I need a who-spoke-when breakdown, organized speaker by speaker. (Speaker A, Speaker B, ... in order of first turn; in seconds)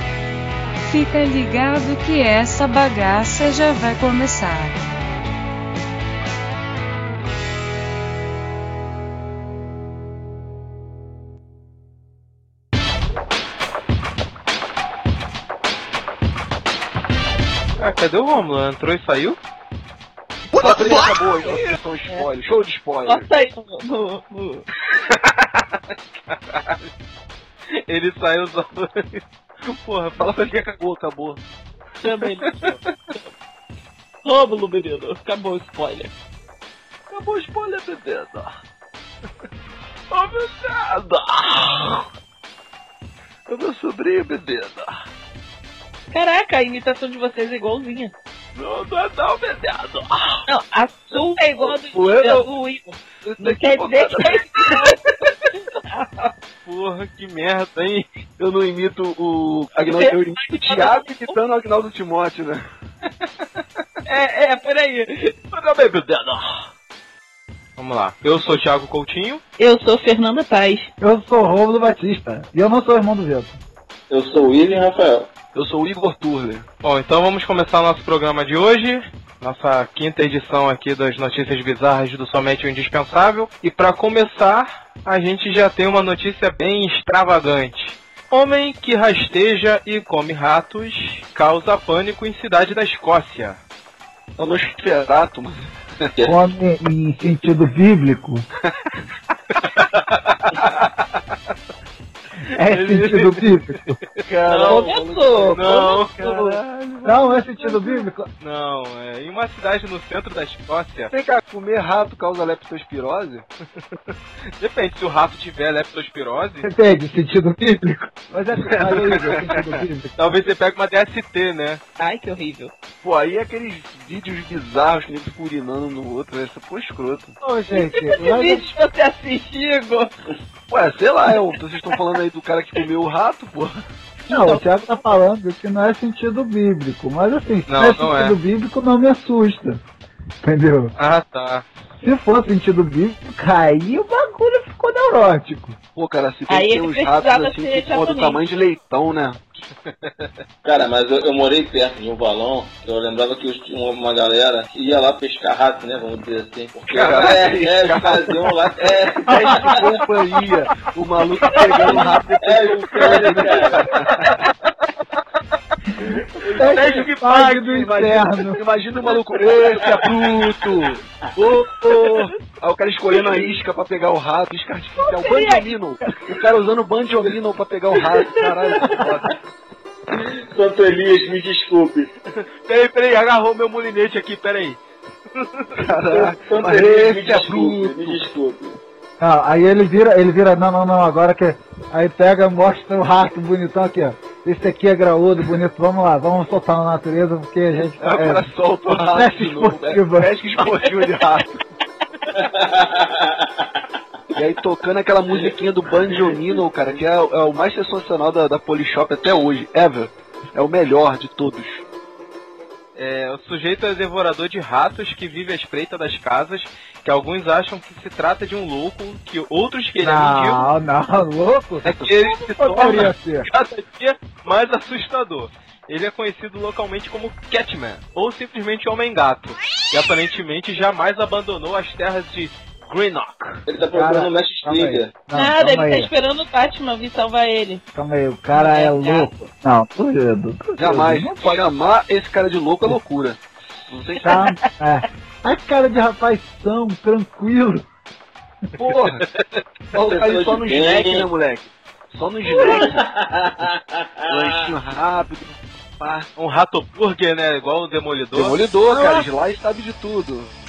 Speaker A: 0.8-4.9
Speaker B: 17.8-19.4, 25.0-26.9, 27.7-30.5, 32.4-32.7, 49.3-49.9, 56.6-58.1, 65.5-66.7, 67.8-69.4, 76.8-93.6, 99.6-101.0, 102.6-104.9, 105.5-106.2, 108.4-111.1, 114.6-116.7, 120.2-121.8, 137.7-138.4, 141.0-141.7, 149.9-150.3, 161.5-162.0, 166.6-167.8, 182.6-185.9, 212.9-220.7, 221.8-233.6, 249.0-249.6, 256.4-258.6
Speaker C: 20.6-22.3, 23.1-24.6, 32.0-33.3, 34.2-36.1, 46.1-48.1, 50.5-56.3, 59.8-61.3, 64.1-65.4, 69.6-70.9, 104.5-106.6, 122.0-122.7, 127.7-130.1, 134.3-134.7, 146.5-148.4, 175.0-175.7, 235.3-237.8, 238.5-239.3, 244.3-244.6
Speaker D: 20.6-23.3, 30.2-31.4, 37.1-38.5, 40.1-42.1, 43.5-45.0, 48.7-50.0, 51.6-52.5, 53.2-54.9, 58.4-62.6, 75.5-76.7, 94.4-96.1, 104.2-108.1, 111.1-113.5, 118.6-119.8, 123.0-127.3, 130.7-133.8, 145.9-149.4, 156.9-164.4, 166.6-179.4, 185.8-188.2, 198.0-201.6, 204.3-211.8, 240.8-244.5, 248.8-249.2, 249.9-253.1, 254.3-256.3, 258.3-260.5
Speaker E: 71.0-73.6, 96.3-98.5, 102.5-104.0, 107.0-108.3, 116.6-120.2, 127.4-128.7, 134.3-139.8, 140.4-140.9, 142.0-145.8, 163.0-163.8, 165.9-168.6, 189.2-200.3, 220.0-223.5, 233.9-236.1, 237.9-241.6, 244.2-247.9, 258.9-259.3
Speaker F: 74.1-75.3, 150.6-159.9, 162.4-164.0, 173.1-173.5, 178.6-179.0, 180.1-182.1, 186.1-188.8, 202.4-203.7, 233.7-235.1, 250.0-251.3, 252.5-254.6